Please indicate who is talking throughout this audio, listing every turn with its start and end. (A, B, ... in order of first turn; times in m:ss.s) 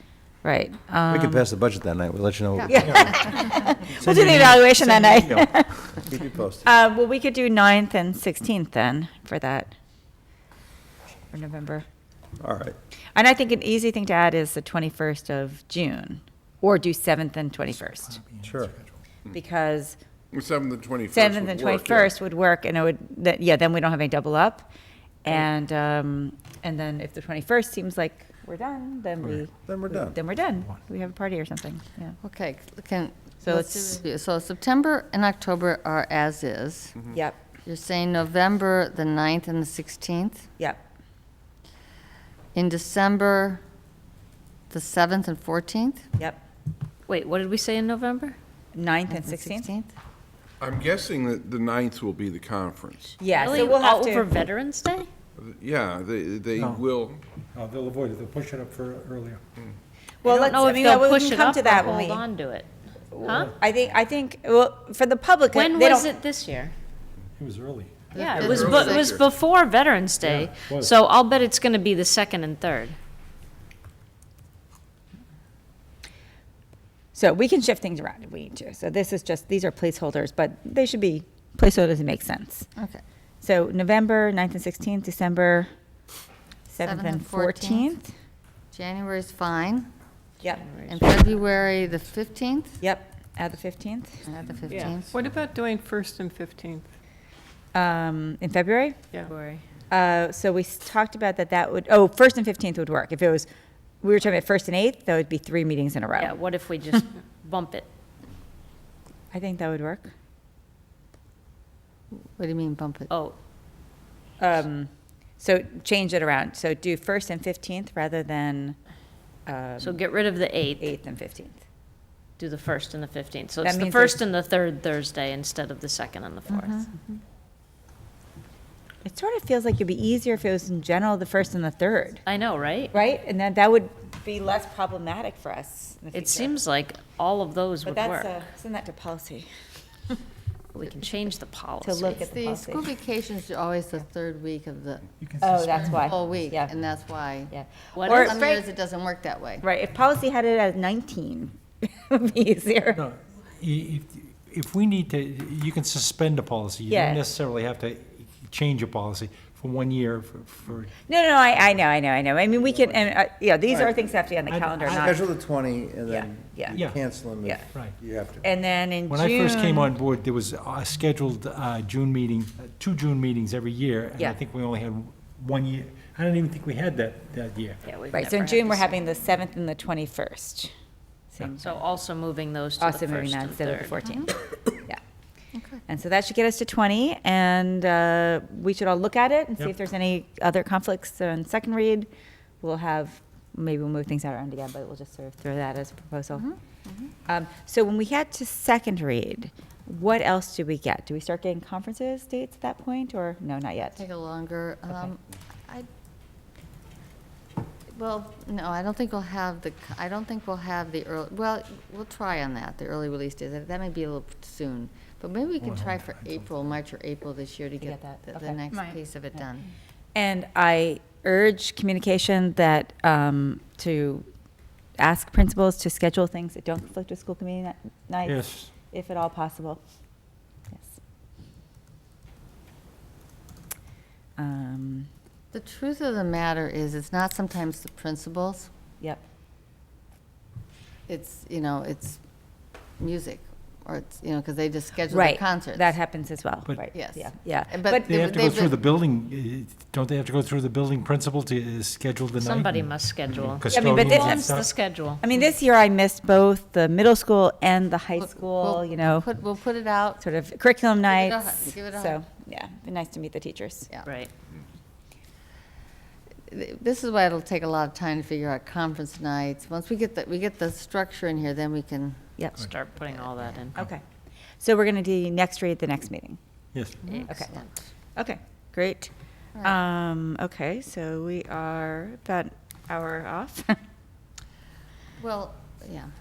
0:00.4-0:01.4 A
0:01.1-0:03.1 B
0:02.7-0:06.1 A
0:02.8-0:03.2 C
0:04.0-0:05.4 C
0:06.0-0:06.7 B
0:06.6-0:09.7 A
0:11.3-0:11.8 A
0:12.4-0:12.8 B
0:13.1-0:18.1 A
0:17.8-0:18.9 C
0:18.5-0:18.7 B
0:19.3-0:20.0 A
0:20.3-0:22.1 D
0:21.1-0:24.7 A
0:25.2-0:32.2 A
0:29.6-0:30.2 B
0:32.2-0:36.9 E
0:33.4-0:34.0 A
0:37.1-0:37.4 A
0:37.6-0:40.5 E
0:42.5-0:43.6 E
0:44.7-0:46.1 E
0:47.1-0:48.4 F
0:48.7-0:49.7 A
0:49.1-0:49.9 E
0:50.6-0:53.2 D
0:53.2-0:54.3 A
0:53.3-0:55.1 F
0:55.4-0:57.2 D
0:56.6-0:56.8 C
0:57.5-0:59.4 C
1:00.2-1:02.2 A
1:00.2-1:02.7 F
1:03.1-1:06.0 A
1:03.2-1:03.5 F
1:05.5-1:06.7 F
1:07.4-1:08.0 C
1:08.1-1:09.1 E
1:08.1-1:13.0 F
1:08.3-1:09.2 D
1:10.2-1:10.9 C
1:17.1-1:22.7 A
1:23.4-1:25.7 A
1:26.7-1:28.1 A
1:26.8-1:27.9 E
1:28.7-1:29.9 E
1:30.6-1:31.1 F
1:30.9-1:32.8 E
1:32.8-1:34.2 A
1:34.2-1:35.1 E
1:34.7-1:36.9 G
1:37.7-1:39.0 A
1:39.2-1:39.6 F
1:39.9-1:43.5 A
1:44.0-1:46.3 A
1:46.2-1:47.9 F
1:49.3-1:50.1 A
1:52.4-1:53.1 E
1:53.1-1:53.4 F
1:54.4-1:58.8 A
1:59.4-2:00.0 A
1:59.8-2:00.9 F
2:00.8-2:01.6 A
2:02.4-2:06.9 F
2:03.6-2:04.2 A
2:06.5-2:07.2 E
2:09.0-2:12.2 A
2:12.2-2:12.9 F
2:12.9-2:16.5 A
2:16.1-2:18.3 F
2:17.8-2:19.5 A
2:20.7-2:22.1 F
2:20.8-2:21.1 A
2:21.8-2:22.9 A
2:22.1-2:25.0 E
2:25.2-2:26.1 C
2:25.4-2:26.7 A
2:25.6-2:27.5 E
2:27.5-2:28.6 A
2:27.9-2:28.4 F
2:28.0-2:29.6 E
2:29.6-2:33.0 A
2:33.0-2:40.9 C
2:36.9-2:37.2 A
2:41.1-2:45.2 A
2:44.5-2:45.1 C
2:45.0-2:48.4 B
2:46.1-2:46.8 A
2:48.4-2:49.9 A
2:49.1-2:57.8 C
2:57.8-2:58.9 F
2:58.1-3:00.7 A
3:01.3-3:01.7 A
3:01.6-3:04.0 F
3:02.8-3:05.0 A
3:05.5-3:05.8 E
3:05.9-3:12.1 A
3:12.6-3:16.5 A
3:16.3-3:17.1 E
3:17.3-3:24.0 A
3:24.0-3:25.9 E
3:27.9-3:39.7 E
3:35.6-3:36.4 C
3:37.8-3:39.4 A
3:40.1-3:44.3 A
3:45.0-3:49.8 A
3:48.2-3:48.7 C
3:54.4-3:55.1 A
3:55.5-3:58.7 E
4:01.1-4:02.2 E
4:03.0-4:05.9 E
4:05.1-4:08.2 A
4:06.9-4:08.8 E
4:08.0-4:14.7 C
4:12.4-4:15.2 F
4:13.7-4:19.2 A
4:18.2-4:20.2 E
4:20.2-4:23.9 A
4:21.0-4:22.2 E
4:26.5-4:32.2 E
4:32.4-4:34.0 A
4:32.6-4:33.8 F
4:34.6-4:36.4 A
4:36.7-4:37.0 C
4:37.0-4:37.6 E
4:37.0-4:37.7 F
4:37.3-4:37.5 A
4:38.2-4:39.1 A
4:39.6-4:43.8 A
4:45.2-4:46.1 E